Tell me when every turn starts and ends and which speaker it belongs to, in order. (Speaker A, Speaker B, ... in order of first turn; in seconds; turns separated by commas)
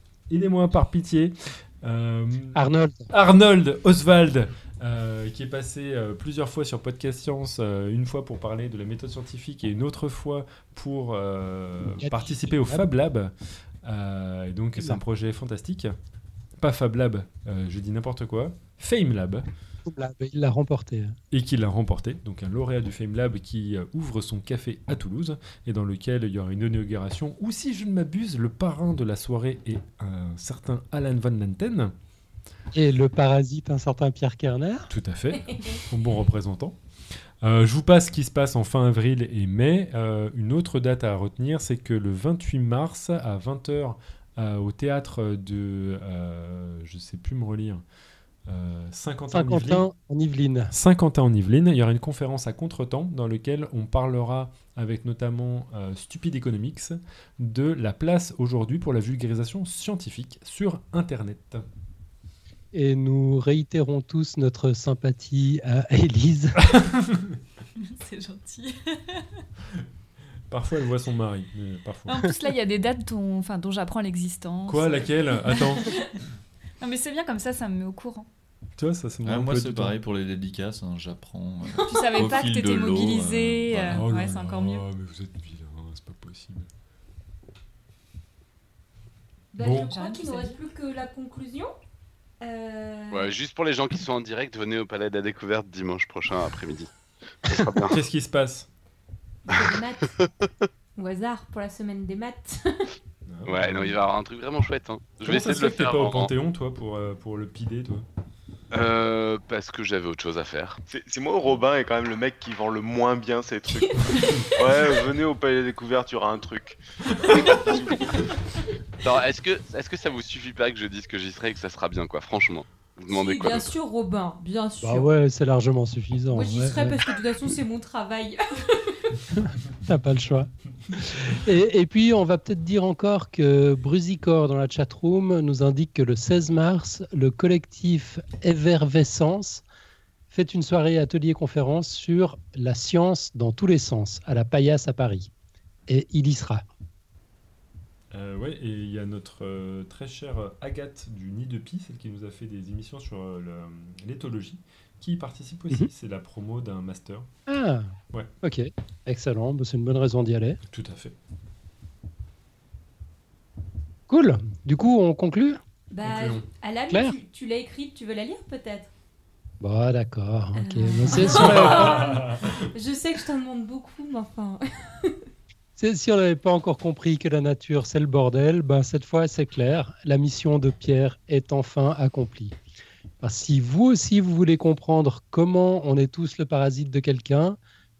Speaker A: 0.3-2.6, Speaker B: 2.5-3.1, Speaker A: 3.1-15.9, Speaker B: 12.0-12.8, Speaker A: 16.6-19.5, Speaker B: 19.9-21.1, Speaker A: 21.3-31.9, Speaker B: 32.7-34.9, Speaker A: 34.9-36.8, Speaker C: 35.5-35.8, Speaker A: 37.4-47.8, Speaker A: 48.5-49.8, Speaker B: 49.3-50.7, Speaker A: 50.7-61.7, Speaker B: 62.7-66.7, Speaker A: 66.7-67.3, Speaker D: 67.8-69.4, Speaker A: 70.5-72.2, Speaker D: 72.1-75.9, Speaker A: 74.7-76.0, Speaker D: 76.8-78.3, Speaker A: 78.8-80.0, Speaker E: 79.2-84.0, Speaker D: 81.8-84.8, Speaker A: 83.8-86.7, Speaker C: 89.5-91.7, Speaker A: 89.6-89.9, Speaker D: 89.8-90.6, Speaker C: 92.4-93.3, Speaker F: 93.1-96.9, Speaker F: 97.4-98.0, Speaker A: 97.9-98.7, Speaker C: 99.5-100.1, Speaker F: 99.5-100.3, Speaker C: 101.0-102.8, Speaker A: 103.2-104.0, Speaker F: 103.5-106.3, Speaker A: 105.2-108.0, Speaker F: 108.7-110.8, Speaker G: 110.9-118.0, Speaker C: 113.7-115.0, Speaker F: 119.0-123.7, Speaker C: 123.1-125.1, Speaker B: 124.8-127.0, Speaker C: 126.3-129.2, Speaker B: 129.4-139.6, Speaker B: 140.3-145.3, Speaker B: 145.9-146.6, Speaker A: 148.1-157.3, Speaker B: 157.5-160.6, Speaker A: 160.7-161.1, Speaker B: 164.1-165.6, Speaker C: 165.9-168.9, Speaker A: 166.0-166.4, Speaker B: 169.6-172.1, Speaker C: 170.6-175.2, Speaker A: 171.2-172.6, Speaker B: 175.8-182.6, Speaker B: 183.2-187.6